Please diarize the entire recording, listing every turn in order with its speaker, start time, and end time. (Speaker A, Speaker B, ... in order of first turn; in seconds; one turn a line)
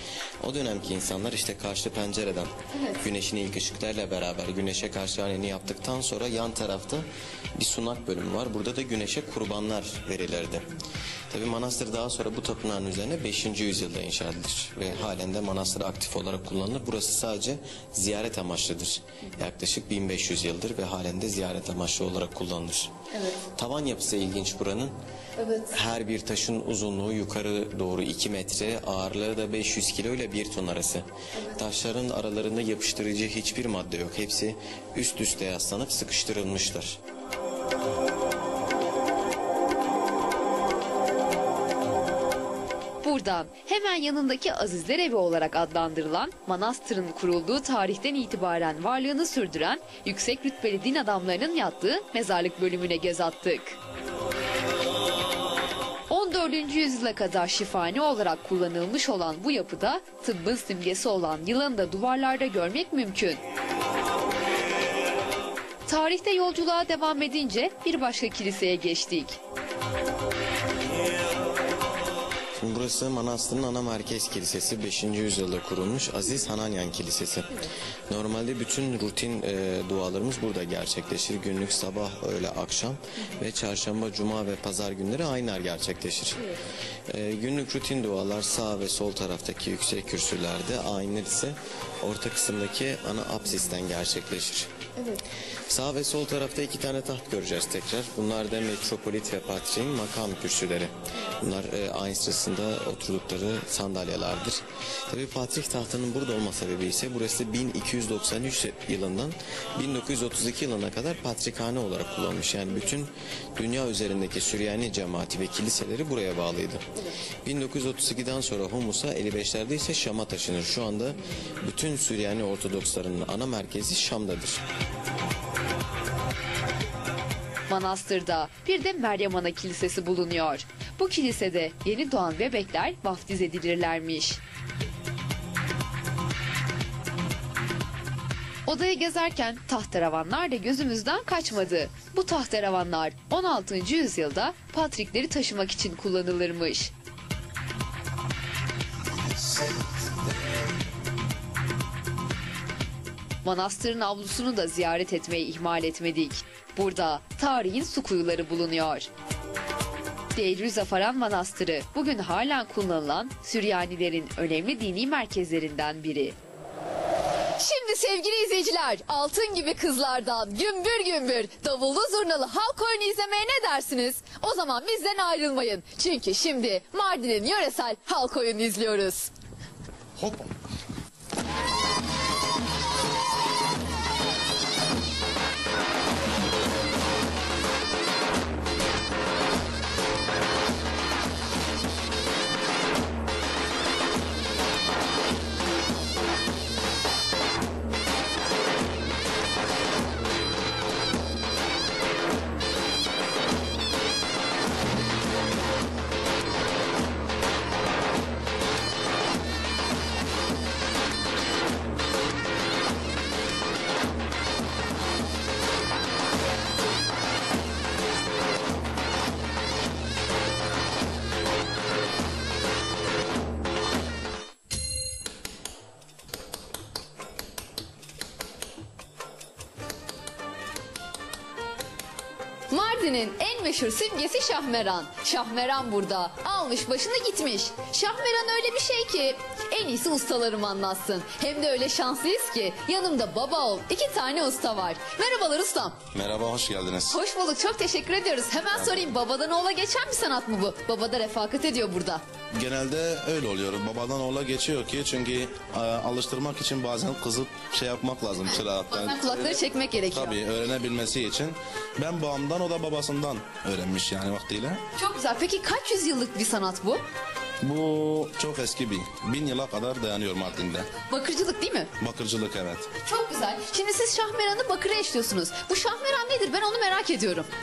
Speaker A: 0.4-10.7
Speaker A: 11.3-25.0
Speaker A: 25.5-37.0
Speaker B: 43.0-53.8
Speaker B: 56.1-63.4
Speaker B: 65.8-69.4
Speaker A: 72.6-86.6
Speaker A: 87.1-124.6
Speaker B: 127.7-134.4
Speaker B: 138.7-146.9
Speaker B: 153.4-159.1
Speaker B: 160.3-166.3
Speaker B: 167.6-179.3
Speaker C: 180.2-180.5
Speaker B: 232.7-246.0
Speaker C: 246.1-247.2
Speaker B: 247.1-252.2
Speaker C: 252.5-264.8
Speaker B: 258.5-260.4
Speaker B: 264.9-267.0
Speaker C: 267.6-270.9
Speaker B: 271.0-271.9
Speaker C: 272.0-272.9
Speaker B: 273.0-277.5